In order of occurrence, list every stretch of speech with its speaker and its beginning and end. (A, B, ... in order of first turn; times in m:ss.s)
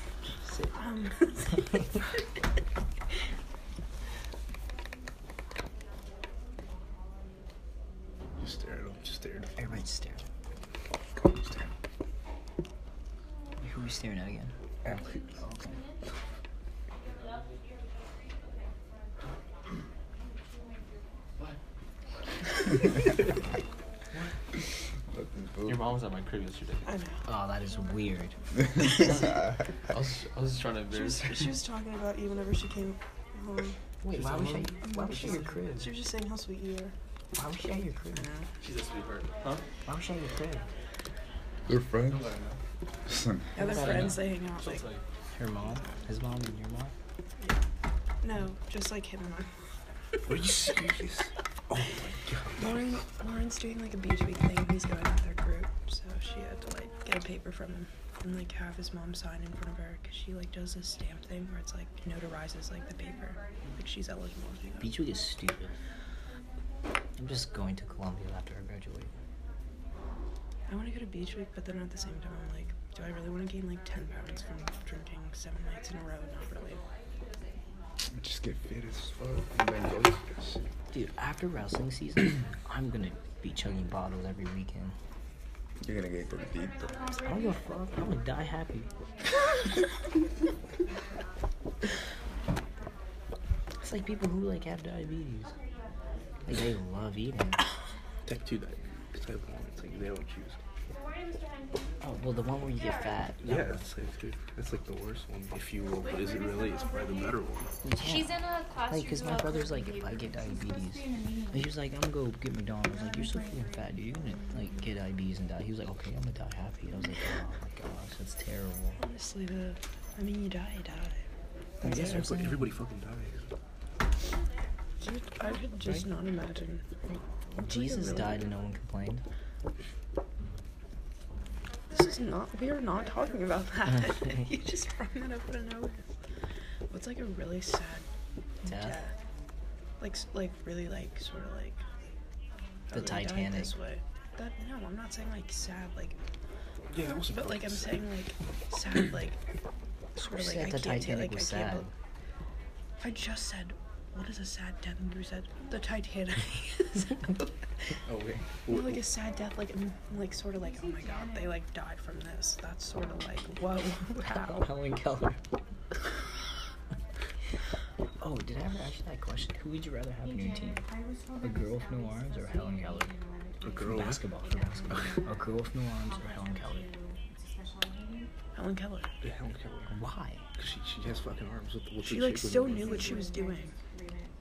0:00.5-0:00.7 A
0:00.7-0:01.7 B
0:08.4-0:09.5 C
0:09.6-0:10.2 A
0:13.6-0:14.5 A
0:14.8-0:15.4 C
0:25.1-0:25.9 D
0:25.6-0:26.9 E
0:26.9-0:27.2 B
0:27.2-0:29.3 A
0:28.8-0:29.6 D
0:29.0-0:31.6 E
0:30.9-0:33.8 B
0:34.0-0:35.9 A
0:34.9-0:36.9 B
0:37.4-0:38.3 A
0:38.1-0:38.5 B
0:38.6-0:39.6 E
0:39.9-0:40.7 A
0:41.7-0:42.4 D
0:43.0-0:43.6 D
0:43.6-0:44.8 B
0:43.6-0:45.0 E
0:43.7-0:44.2 A
0:45.3-0:46.9 A
0:48.2-0:49.5 B
0:50.2-0:52.9 C
0:52.6-1:04.9 B
1:04.8-1:05.7 A
1:07.2-1:09.1 A
1:10.7-1:16.8 B
1:18.1-1:20.6 D
1:20.9-1:25.0 A
1:25.8-1:27.0 D
1:27.2-1:28.9 A
1:33.8-1:35.5 A
1:36.5-1:37.6 A
1:38.2-1:40.6 C
1:42.0-1:43.6 A
1:43.4-1:47.7 C
1:47.8-1:59.0 A
1:59.0-2:01.2 B
2:01.8-2:02.7 A
2:01.8-2:03.5 C
2:05.0-2:06.8 B
2:07.1-2:09.2 A
2:07.6-2:08.4 B
2:11.9-2:16.0 B
2:16.9-2:18.0 B
2:18.6-2:19.1 B
2:18.6-2:19.0 A
2:20.0-2:21.8 B
2:22.9-2:26.2 B
2:22.9-2:23.7 A
2:26.9-2:28.0 C
2:27.1-2:29.4 B
2:30.2-2:31.9 A
2:30.2-2:31.8 B
2:33.0-2:37.3 B
2:38.0-2:39.0 C
2:38.7-2:44.7 B
2:44.2-2:45.4 A
2:48.2-2:50.8 A
2:51.4-2:53.1 A
2:53.6-2:54.2 C
2:53.8-2:56.9 A
2:58.6-2:59.1 B
2:59.2-2:59.9 C
2:59.9-3:00.4 A
3:00.6-3:03.2 C
3:02.0-3:03.7 B